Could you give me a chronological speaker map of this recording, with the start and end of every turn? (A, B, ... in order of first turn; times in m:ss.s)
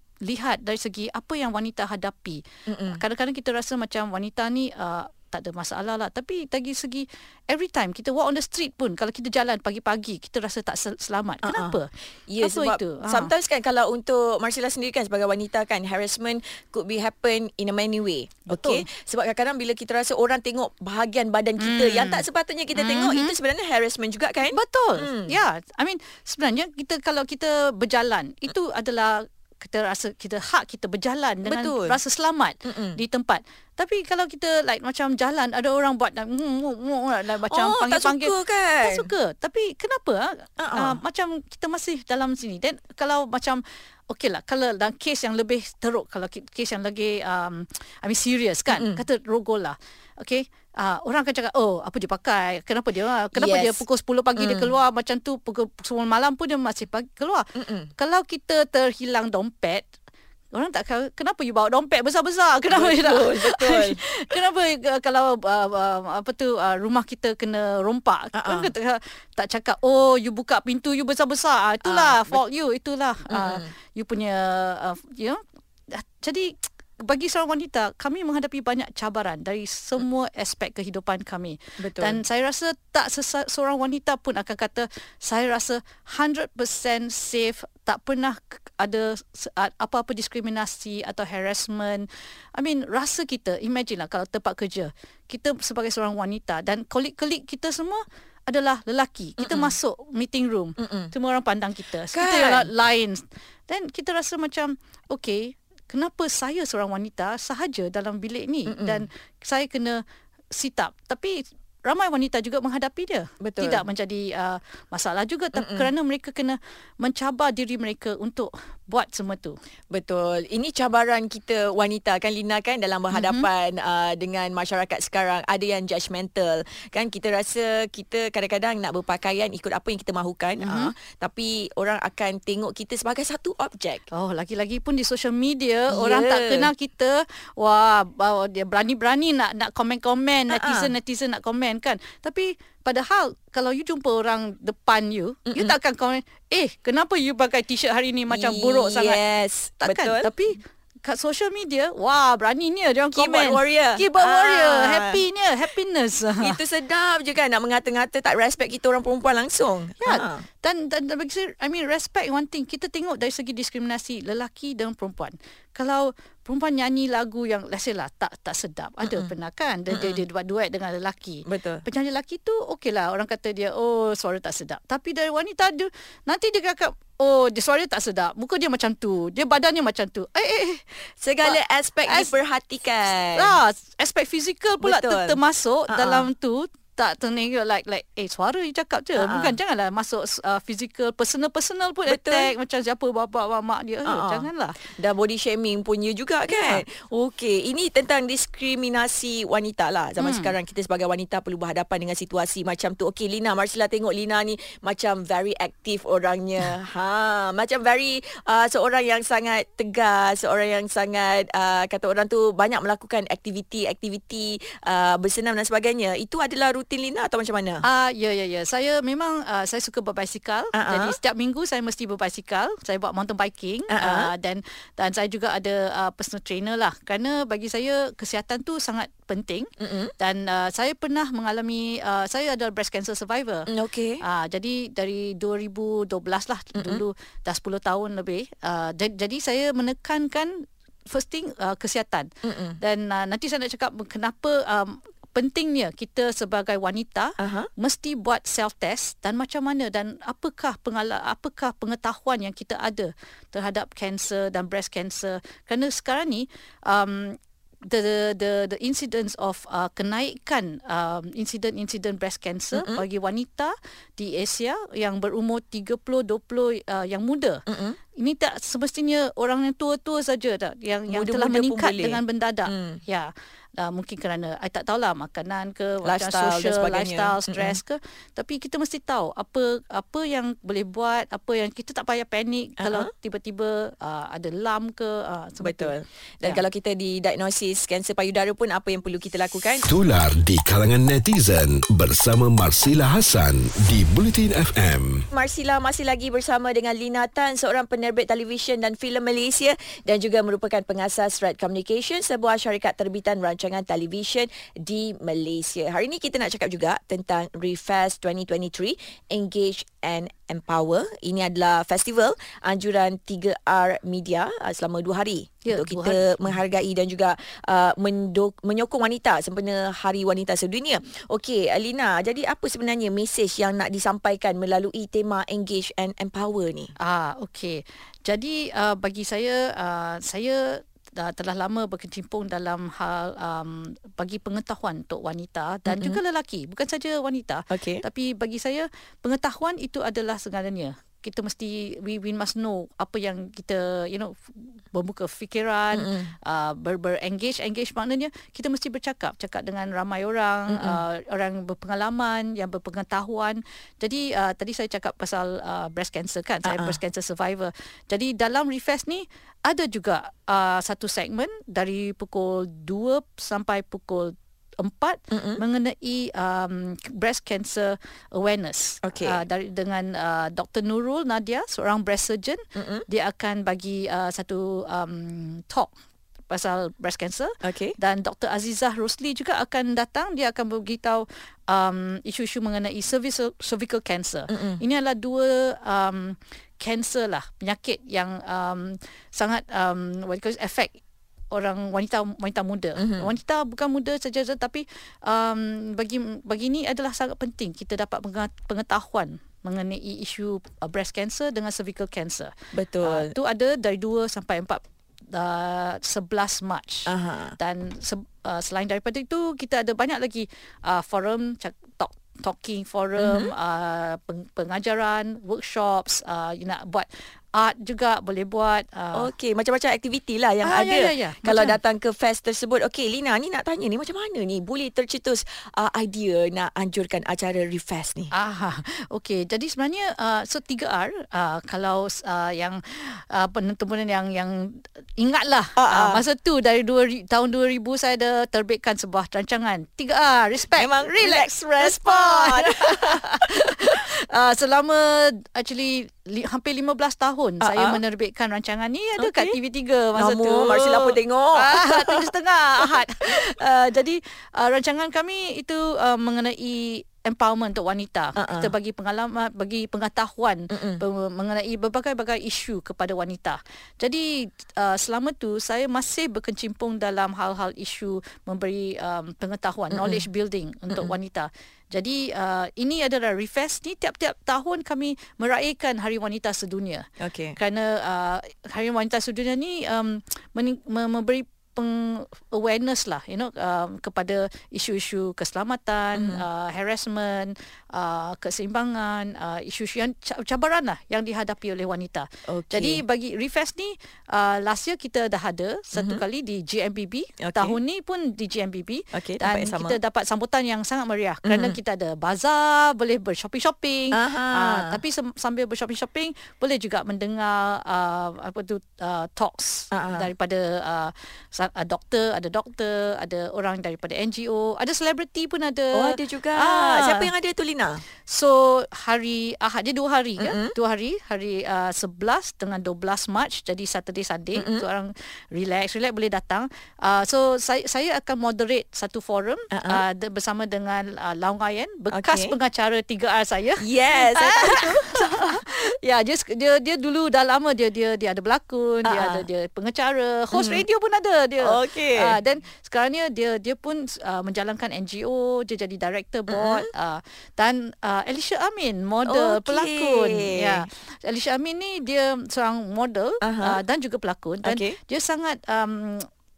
0:00.2-0:11.9 A
0:02.7-0:03.0 B
0:11.4-0:25.3 B
0:12.4-0:13.3 A
0:18.5-0:18.8 A
0:21.6-0:22.2 A
0:22.7-0:23.3 A
0:24.5-0:59.9 A
0:31.4-0:32.0 B
0:32.6-0:33.0 B
0:37.4-0:39.1 B
0:40.6-0:41.0 B
0:48.7-0:49.0 B
0:53.3-0:53.8 B
0:54.4-0:54.7 B
0:57.6-0:57.9 B
1:00.5-1:15.4 A
1:02.7-1:04.0 B
1:08.3-1:08.7 B
1:11.8-1:12.4 B
1:13.3-1:13.7 B
1:15.9-1:50.0 A
1:21.8-1:22.2 B
1:39.4-1:39.8 B
1:40.8-1:41.1 B
1:42.1-1:42.7 B
1:48.7-1:49.0 B
1:50.5-1:59.6 A
1:53.4-1:53.8 B
1:55.5-1:55.9 B
1:59.9-2:14.1 B
2:03.1-2:03.5 A
2:10.6-2:10.9 A
2:14.1-2:29.2 A
2:15.9-2:16.7 B
2:20.5-2:20.9 B
2:25.5-2:25.8 B
2:28.3-2:30.3 B
2:29.8-2:36.6 A
2:33.1-2:35.2 B
2:36.4-2:40.4 B
2:40.0-3:02.3 A
2:49.0-2:49.3 B
2:49.9-2:50.2 B
2:51.4-2:51.8 B
3:01.2-3:03.6 B
3:03.3-3:14.8 A
3:04.8-3:06.3 B
3:09.2-3:09.5 B
3:12.1-3:12.5 B
3:14.0-3:37.8 B
3:16.5-3:16.8 A
3:20.2-3:20.5 A
3:37.8-3:53.7 A
3:40.7-3:41.2 B
3:43.9-3:44.3 B
3:49.8-3:50.1 B
3:53.7-3:54.2 B
3:54.2-4:02.3 A
3:56.7-3:57.0 B
4:02.4-4:02.8 B
4:02.8-4:27.6 A
4:07.4-4:07.7 B
4:22.7-4:23.0 B
4:27.7-4:28.0 B
4:28.2-4:46.6 A
4:31.1-4:33.0 B
4:36.0-4:37.8 B
4:42.8-4:43.1 B
4:45.6-4:49.9 B
4:49.9-4:55.2 C
4:55.3-5:26.9 B
5:15.6-5:16.4 A
5:27.0-6:15.9 A
5:35.9-5:36.2 B
5:37.7-5:38.0 B
5:45.9-5:46.3 B
5:50.7-5:51.0 B
5:56.6-5:57.0 B
6:05.3-6:05.6 B
6:09.0-6:09.4 B
6:12.8-6:13.0 B
6:16.5-6:31.0 A
6:17.6-6:18.0 B
6:24.5-6:24.8 B
6:31.5-6:42.5 A
6:33.0-6:33.3 B
6:42.7-6:43.3 B
6:43.0-6:44.8 A
6:45.3-6:59.3 A
6:47.1-6:47.6 B
6:53.2-6:53.5 B
6:59.1-7:08.3 B
7:00.6-7:01.8 A
7:08.3-8:37.3 A
7:15.8-7:16.2 B
7:20.8-7:24.0 B
7:27.6-7:28.0 B
7:29.2-7:29.6 B
7:30.2-7:32.9 B
7:38.4-7:38.7 B
7:40.7-7:41.0 B
7:49.9-7:50.2 B
7:57.2-7:57.6 B
8:06.1-8:06.4 B
8:12.5-8:13.0 B
8:15.9-8:16.2 B
8:17.4-8:17.8 B
8:19.1-8:20.0 B
8:21.4-8:21.8 B
8:24.1-8:25.0 B
8:29.9-8:30.3 B
8:35.9-8:38.0 B
8:38.2-9:16.3 A
8:40.4-8:40.7 B
8:44.6-8:44.8 B
8:49.7-8:50.0 B
8:52.1-8:52.5 B
8:53.8-8:55.6 B
8:59.0-8:59.4 B
9:00.5-9:00.8 B
9:01.6-9:02.3 B
9:06.5-9:06.9 B
9:09.2-9:10.9 B
9:13.4-9:13.8 B
9:14.6-9:15.0 B